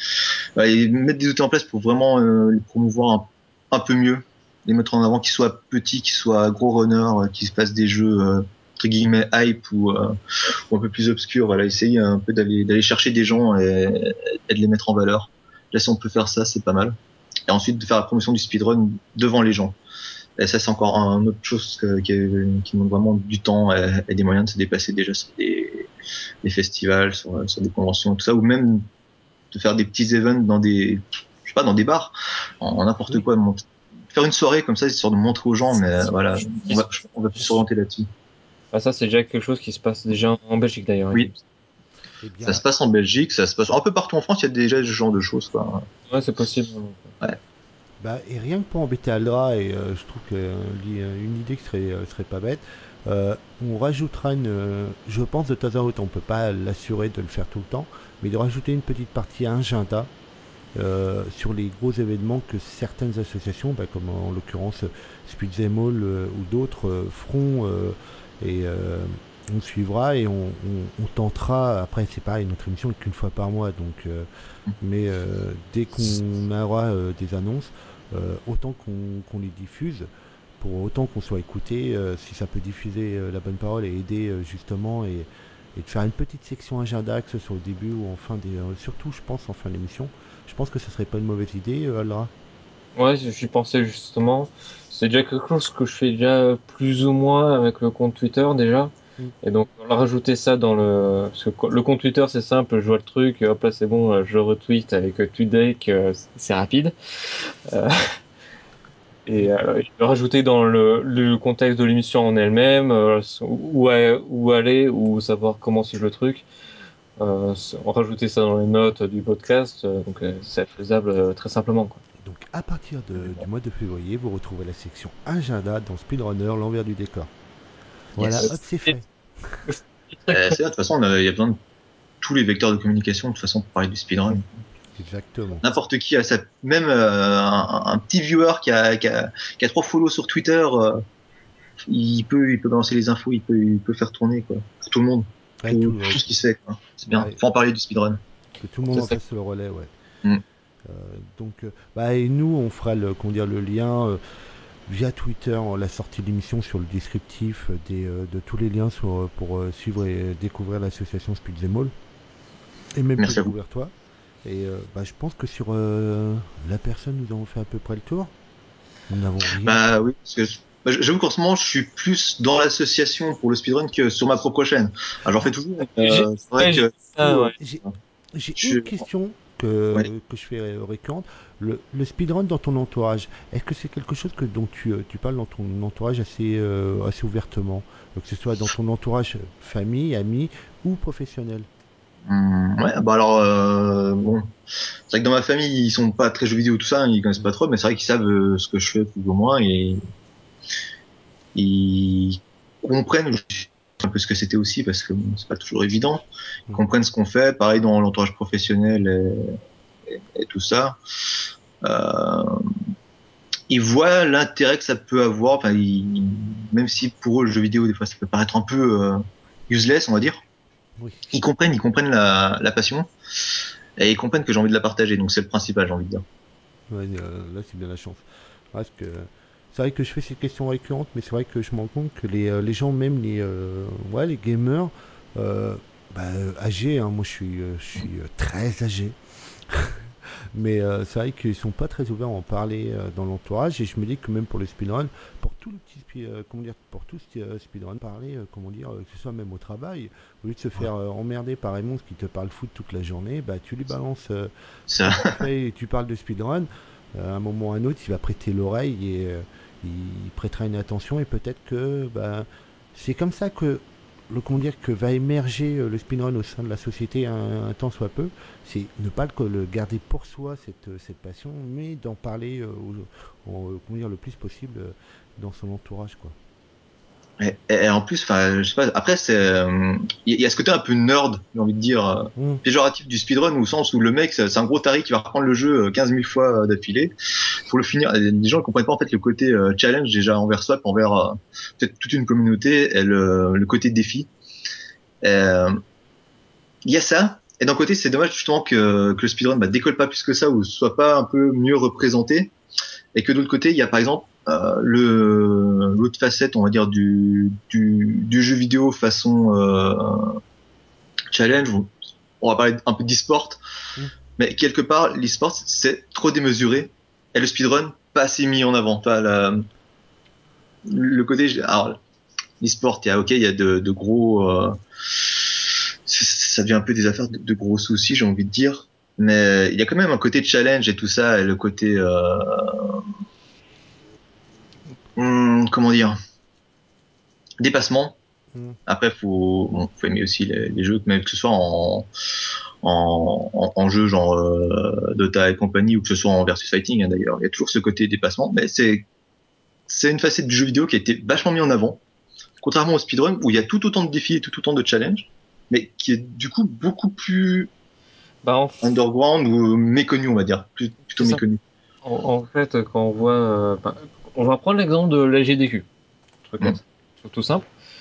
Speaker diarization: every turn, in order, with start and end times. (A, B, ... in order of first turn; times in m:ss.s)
0:00.6-0:10.2 A
0:10.7-0:19.8 A
0:20.4-0:25.9 A
0:26.4-0:28.9 A
0:29.5-0:38.1 A
0:38.7-0:41.4 B
0:42.2-0:42.6 C
0:42.4-0:45.9 A
0:46.1-0:47.2 B
0:48.0-1:00.1 C
1:00.8-1:14.3 C
1:14.8-1:32.3 C
1:33.0-1:48.2 B
1:49.3-1:56.4 B
1:57.2-2:02.0 B
2:02.2-2:07.3 C
2:08.2-2:09.6 C
2:08.2-2:08.5 A
2:08.4-2:08.9 B
2:09.7-2:10.6 B
2:10.3-2:11.6 A
2:12.2-2:14.5 A
2:15.0-2:15.7 C
2:15.6-2:21.0 A
2:21.9-2:28.2 A
2:25.6-2:26.2 C
2:27.1-2:27.4 C
2:28.6-2:29.9 C
2:30.8-2:34.2 C
2:34.9-2:41.9 C
2:43.0-2:43.9 C
2:43.2-2:43.5 A
2:44.4-2:48.3 C
2:49.1-2:49.8 C
2:49.6-2:57.9 A
2:56.0-2:57.6 B
2:57.6-2:57.8 C
2:58.4-3:11.7 C
2:58.6-2:59.0 A
3:12.3-3:14.5 A
3:15.1-3:20.0 A
3:21.6-3:29.6 A
3:30.4-3:31.0 A
3:31.8-3:32.7 A
3:33.7-3:40.4 A
3:41.0-3:41.4 C
3:41.3-3:43.1 A
3:44.0-3:46.2 A
3:46.9-3:59.2 C
3:59.7-4:14.5 C
4:14.9-4:15.3 A
4:15.0-4:36.4 C
4:37.4-4:47.1 A
4:42.4-4:42.6 C
4:47.7-4:54.3 A
4:55.2-4:55.8 A
4:56.8-5:02.5 A
5:03.2-5:10.4 A
5:11.3-5:11.9 A
5:12.4-5:13.6 A
5:14.4-5:19.7 A
5:20.8-5:22.0 A
5:22.6-5:24.8 A
5:26.1-5:33.0 A
5:35.2-5:36.2 A
5:37.6-5:38.2 A
5:38.9-5:42.1 A
5:42.8-5:49.1 A
5:49.9-5:52.0 A
5:52.6-5:57.7 A
5:58.4-5:58.9 B
5:58.8-6:01.6 A
6:01.2-6:01.4 B
6:02.0-6:05.9 B
6:06.4-6:07.7 B